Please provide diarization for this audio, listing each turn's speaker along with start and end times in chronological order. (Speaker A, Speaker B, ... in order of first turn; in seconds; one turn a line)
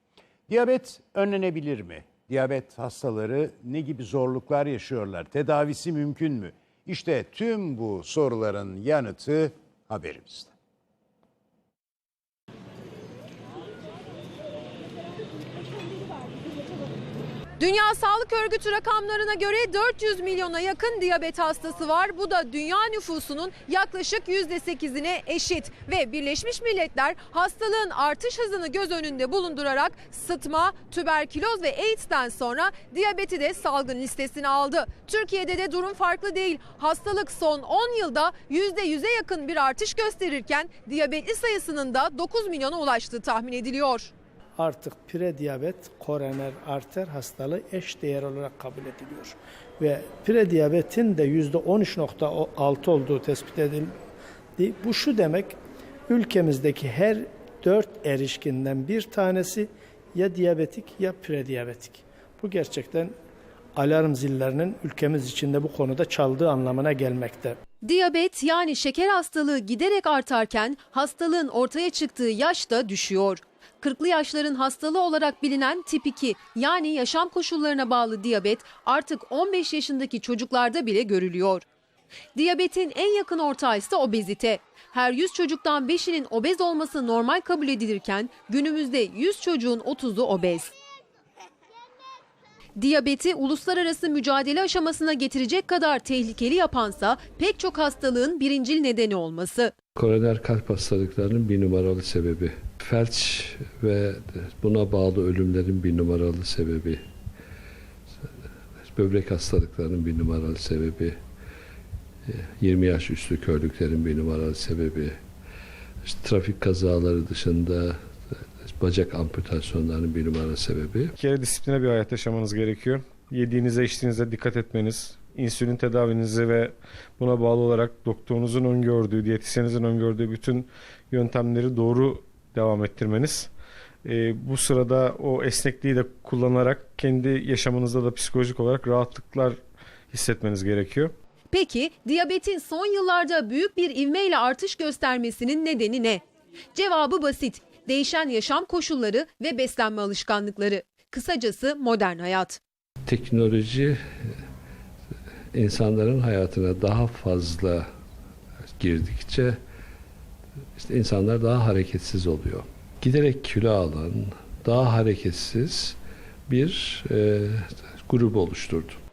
Speaker A: 0.5-10.5
Speaker B: 17.6-44.1
Speaker C: 44.6-53.9
Speaker C: 54.6-55.5
Speaker C: 56.1-63.1
Speaker C: 63.8-67.6
Speaker B: 67.8-81.6
Speaker B: 82.3-90.7
Speaker B: 92.8-99.7
Speaker D: 100.0-107.0
Speaker D: 108.9-111.2
Speaker D: 112.3-115.2
Speaker D: 116.0-121.1
Speaker E: 121.2-133.5
Speaker E: 134.0-139.6
Speaker E: 140.1-141.1
Speaker B: 141.5-146.2
Speaker B: 146.7-152.6
Speaker D: 153.1-154.0
Speaker D: 155.5-157.8
Speaker D: 158.8-159.6
Speaker D: 160.8-166.0
Speaker D: 166.5-169.0